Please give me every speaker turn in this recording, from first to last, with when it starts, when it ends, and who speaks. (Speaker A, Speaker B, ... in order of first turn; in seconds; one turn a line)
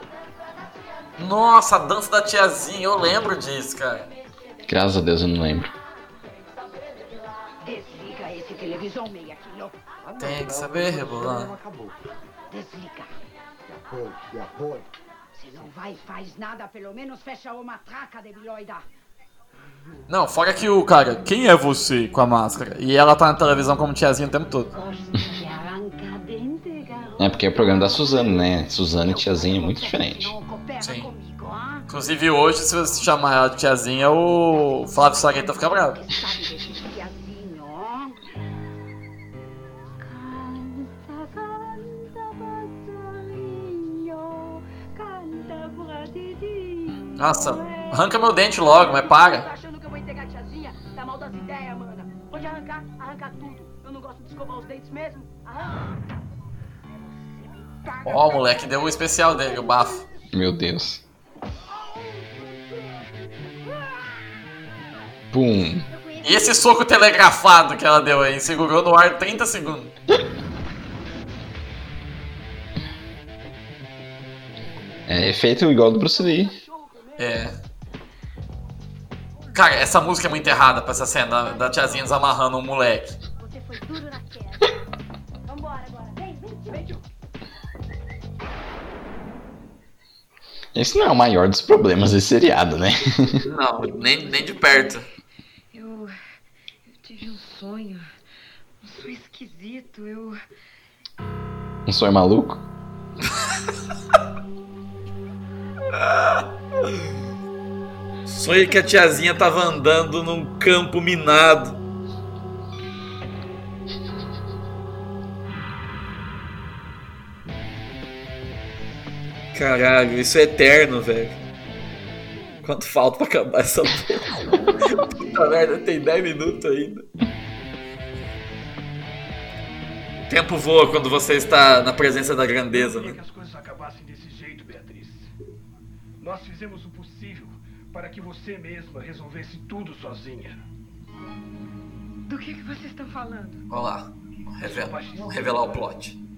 Speaker A: 1.2-4.1
Speaker B: 4.7-5.7
Speaker C: 7.6-9.8
Speaker D: 10.0-12.0
Speaker A: 10.2-11.5
Speaker C: 12.5-13.1
Speaker D: 13.7-14.9
Speaker C: 15.3-18.9
Speaker A: 20.1-24.7
Speaker C: 24.7-31.9
Speaker B: 27.2-30.4
Speaker A: 30.8-31.1
Speaker A: 31.9-36.0
Speaker C: 35.9-38.2
Speaker A: 47.2-49.5
Speaker E: 49.0-55.8
Speaker A: 58.0-60.0
Speaker B: 60.3-61.0
Speaker B: 65.3-65.9
Speaker A: 66.2-70.0
Speaker B: 75.1-76.6
Speaker E: 76.2-77.5
Speaker A: 77.2-77.6
Speaker A: 79.5-83.2
Speaker F: 83.4-84.7
Speaker F: 85.5-86.2
Speaker E: 86.5-87.0
Speaker B: 90.7-93.4
Speaker A: 93.5-95.1
Speaker G: 95.7-96.1
Speaker G: 97.0-98.0
Speaker G: 98.8-100.3
Speaker B: 101.9-102.6
Speaker A: 106.0-106.4
Speaker A: 108.3-111.8
Speaker A: 119.5-121.4
Speaker A: 122.6-127.0
Speaker A: 130.3-133.2
Speaker H: 132.7-135.3
Speaker H: 136.2-140.6
Speaker G: 142.3-143.6
Speaker A: 143.7-146.2
Speaker H: 144.6-145.8